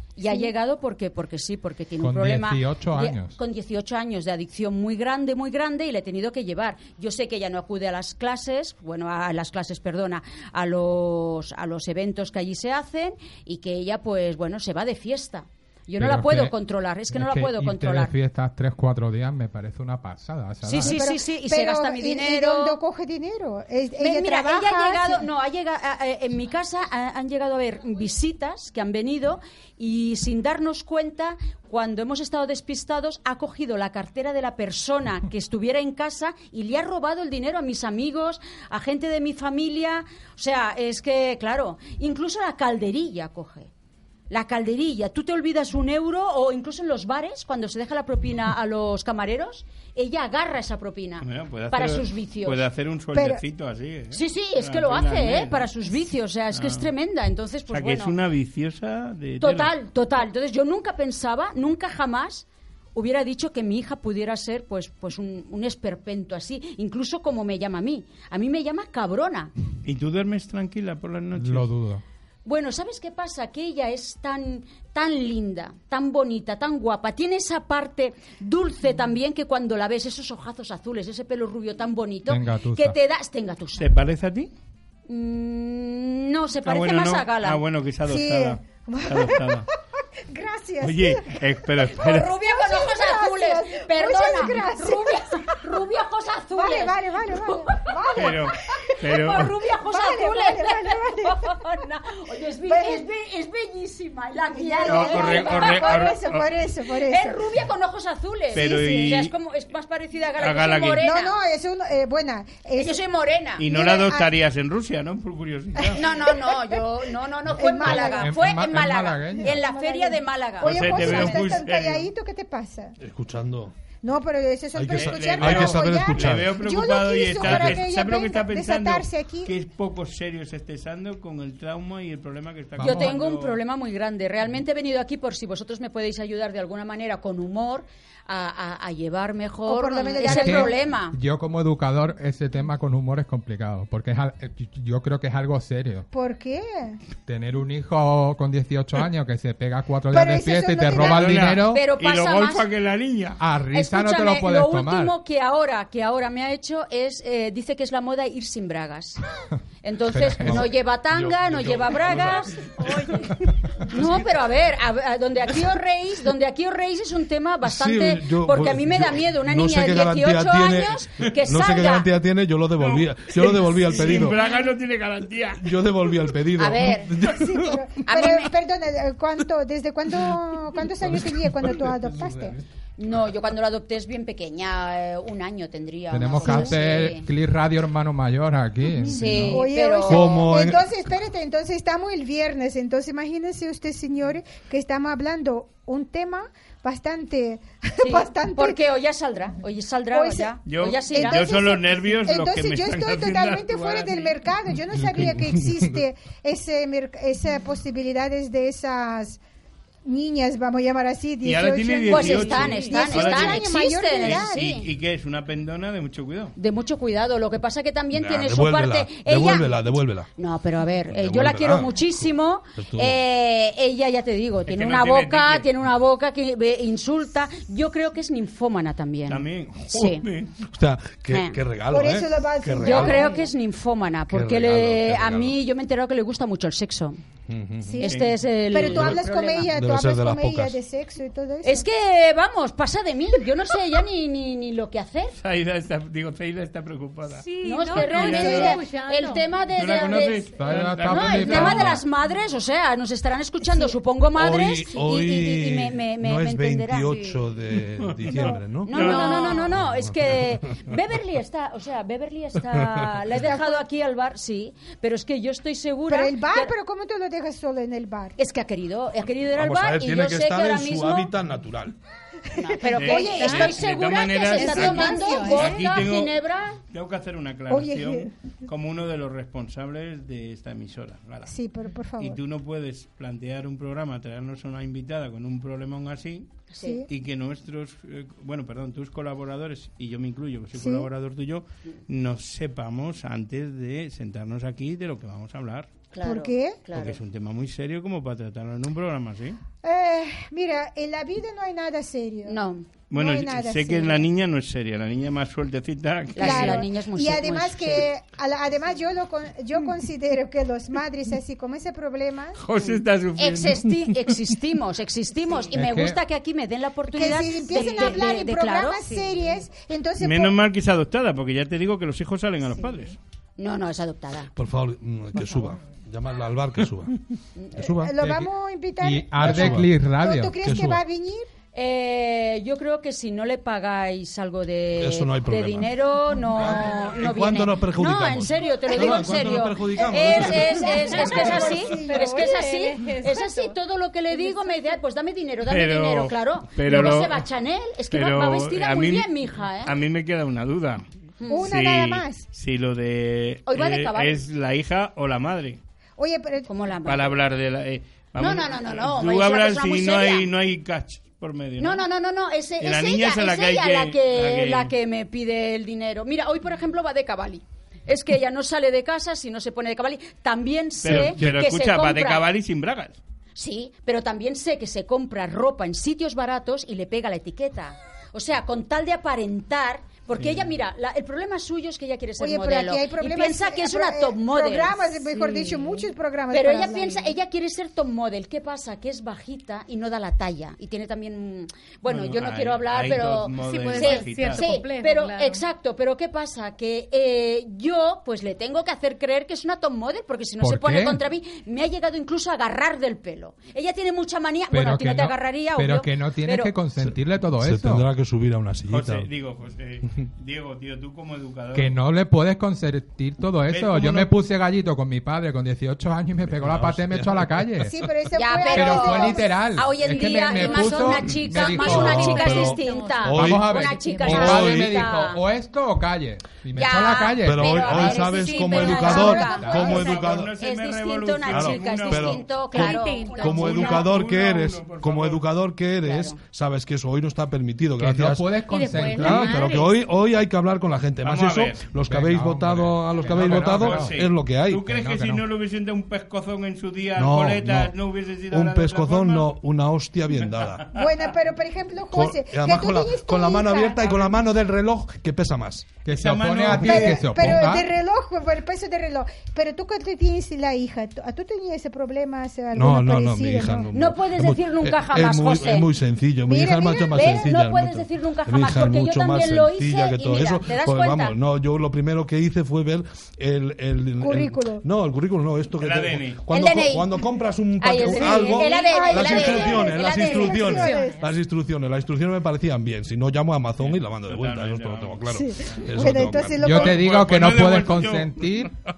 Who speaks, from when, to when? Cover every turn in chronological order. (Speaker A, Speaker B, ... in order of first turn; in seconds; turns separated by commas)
Speaker A: 0.1-18.1, Speaker B: 2.0-3.4, Speaker B: 16.0-16.5, Speaker B: 17.1-21.0, Speaker A: 20.6-22.8, Speaker C: 20.8-25.2, Speaker A: 24.0-43.7, Speaker A: 44.3-52.6, Speaker D: 51.2-55.7, Speaker C: 53.1-53.4, Speaker A: 54.1-58.1, Speaker D: 56.5-56.9, Speaker D: 57.7-59.7, Speaker A: 59.4-69.5, Speaker D: 69.8-71.7, Speaker B: 71.3-72.0, Speaker A: 72.4-83.8, Speaker B: 82.3-83.0, Speaker D: 83.8-84.5, Speaker A: 85.1-87.6, Speaker D: 86.6-89.7, Speaker C: 88.0-89.7, Speaker C: 90.3-91.3, Speaker D: 90.8-92.3, Speaker A: 91.9-106.2, Speaker C: 92.4-95.6, Speaker C: 96.5-101.5, Speaker D: 98.1-99.5, Speaker C: 102.7-103.0, Speaker C: 104.5-107.4, Speaker D: 104.8-106.5, Speaker A: 106.9-111.3, Speaker D: 108.5-109.3, Speaker C: 108.5-109.0, Speaker D: 110.4-111.0, Speaker C: 111.0-113.0, Speaker A: 112.8-113.6, Speaker D: 113.6-116.0, Speaker C: 113.6-114.3, Speaker C: 115.9-116.6, Speaker A: 116.0-121.4, Speaker C: 117.5-118.5, Speaker B: 117.8-119.5, Speaker C: 119.4-122.9, Speaker D: 120.6-122.1, Speaker E: 123.0-123.7, Speaker C: 124.0-129.5, Speaker E: 124.7-126.5, Speaker D: 124.9-133.6, Speaker E: 127.4-127.8, Speaker B: 132.8-133.2, Speaker A: 132.8-141.2, Speaker C: 139.7-140.7, Speaker B: 140.3-146.1, Speaker C: 146.1-147.0, Speaker B: 147.2-151.8, Speaker C: 150.1-151.6, Speaker D: 150.9-153.4, Speaker A: 151.7-152.7, Speaker B: 153.4-155.1, Speaker A: 153.7-159.2, Speaker A: 159.8-162.6, Speaker B: 160.1-160.7, Speaker E: 160.4-163.0, Speaker A: 163.8-172.1, Speaker E: 167.6-174.4, Speaker D: 172.8-175.6, Speaker E: 175.6-177.8, Speaker A: 176.6-177.1, Speaker C: 177.2-182.5, Speaker A: 178.0-178.5, Speaker E: 181.0-182.7, Speaker A: 183.0-187.3, Speaker B: 186.1-189.6, Speaker A: 189.1-190.3, Speaker C: 189.5-198.8, Speaker E: 190.1-191.0, Speaker A: 198.0-201.6, Speaker C: 200.1-200.5, Speaker D: 200.7-204.4, Speaker C: 201.1-209.4, Speaker E: 204.9-206.0, Speaker C: 210.0-214.7, Speaker D: 211.4-216.5, Speaker A: 212.1-214.9, Speaker A: 216.6-219.7, Speaker E: 218.1-220.3, Speaker A: 220.4-230.2, Speaker E: 221.1-223.2, Speaker D: 224.7-225.7, Speaker D: 229.3-230.5, Speaker E: 230.6-233.2, Speaker A: 231.3-231.6, Speaker C: 231.9-233.4, Speaker A: 232.8-237.2, Speaker E: 234.3-235.6, Speaker E: 237.5-238.0, Speaker C: 237.8-238.2, Speaker A: 238.0-239.7, Speaker D: 238.0-238.3, Speaker C: 238.7-241.8, Speaker E: 238.8-240.8, Speaker A: 241.6-245.3, Speaker D: 245.4-247.5, Speaker F: 247.3-249.5, Speaker A: 247.6-250.5, Speaker D: 248.0-248.7, Speaker C: 248.1-248.8, Speaker D: 249.7-252.0, Speaker B: 250.6-252.0, Speaker A: 251.0-257.1, Speaker E: 254.3-259.1, Speaker F: 257.0-257.4, Speaker D: 258.0-259.6, Speaker C: 258.3-258.6, Speaker A: 258.8-266.7, Speaker F: 258.9-259.7, Speaker E: 259.7-261.0, Speaker E: 262.7-263.1, Speaker C: 263.3-263.8, Speaker C: 266.1-268.4, Speaker A: 268.4-271.3, Speaker E: 269.6-271.9, Speaker A: 272.5-276.8, Speaker C: 272.8-273.7, Speaker D: 272.9-281.5, Speaker F: 273.1-276.0, Speaker C: 277.7-278.3, Speaker C: 281.5-282.4, Speaker D: 282.2-295.9, Speaker A: 286.7-287.0, Speaker C: 286.8-287.1, Speaker C: 290.8-291.1, Speaker A: 296.1-297.2, Speaker C: 296.2-296.8, Speaker D: 296.9-299.6, Speaker C: 299.8-302.6, Speaker A: 302.4-302.9, Speaker D: 303.1-306.9, Speaker C: 303.1-304.2, Speaker A: 306.3-308.1, Speaker C: 306.4-312.6, Speaker D: 312.6-314.2, Speaker A: 312.8-319.3, Speaker B: 315.7-316.2, Speaker C: 317.1-320.6, Speaker F: 317.7-318.1, Speaker D: 320.2-323.2, Speaker A: 323.6-324.5, Speaker E: 324.5-327.1, Speaker E: 327.7-328.1, Speaker C: 327.8-331.5, Speaker B: 328.2-330.7, Speaker E: 329.4-329.9, Speaker E: 330.6-331.0, Speaker A: 331.7-349.9, Speaker E: 335.0-341.0, Speaker C: 340.3-342.4, Speaker F: 340.7-343.8, Speaker F: 344.3-344.9, Speaker D: 345.7-347.4, Speaker D: 348.1-351.0, Speaker A: 351.4-351.7, Speaker C: 351.5-352.4, Speaker D: 351.5-355.8, Speaker A: 353.7-354.4, Speaker C: 356.2-356.7, Speaker A: 356.6-357.3, Speaker D: 357.1-362.0, Speaker A: 358.4-360.5, Speaker A: 361.8-372.4, Speaker D: 362.8-364.9, Speaker D: 371.0-373.2, Speaker E: 371.1-371.6, Speaker A: 373.6-385.1, Speaker D: 380.4-380.7, Speaker C: 382.4-387.3, Speaker F: 385.3-386.1, Speaker A: 386.5-406.7, Speaker D: 392.0-394.7, Speaker F: 393.5-395.6, Speaker B: 400.6-401.2, Speaker B: 404.7-408.1, Speaker E: 407.0-409.3, Speaker D: 408.9-411.9, Speaker B: 411.7-417.9, Speaker D: 413.7-414.3, Speaker E: 416.5-418.1, Speaker C: 417.8-419.5, Speaker A: 418.3-425.4, Speaker B: 418.6-422.8, Speaker F: 420.6-420.9, Speaker E: 421.7-424.9, Speaker F: 421.9-424.5, Speaker B: 423.3-429.9, Speaker A: 426.7-434.1, Speaker E: 427.4-430.5, Speaker F: 428.7-430.1, Speaker D: 429.7-432.5, Speaker E: 431.5-444.9, Speaker F: 432.7-433.9, Speaker D: 433.4-435.4, Speaker A: 436.0-436.4, Speaker B: 438.0-439.7, Speaker F: 438.6-439.9, Speaker D: 441.2-441.9, Speaker B: 442.1-444.2, Speaker D: 443.2-449.5, Speaker B: 444.9-445.4, Speaker E: 447.2-447.9, Speaker E: 448.5-450.8, Speaker D: 450.5-451.0, Speaker C: 450.9-454.2, Speaker E: 452.1-455.9, Speaker B: 456.0-457.9, Speaker D: 456.1-457.3, Speaker C: 456.8-463.9, Speaker E: 462.7-486.9, Speaker A: 463.9-465.9, Speaker C: 466.4-467.5, Speaker A: 467.1-471.3, Speaker C: 474.2-474.8, Speaker D: 475.8-476.4, Speaker A: 476.5-477.1, Speaker A: 477.8-481.0, Speaker C: 478.0-481.2, Speaker F: 480.7-481.2, Speaker D: 483.8-485.2, Speaker C: 485.3-487.0, Speaker B: 486.6-488.7, Speaker D: 486.6-488.4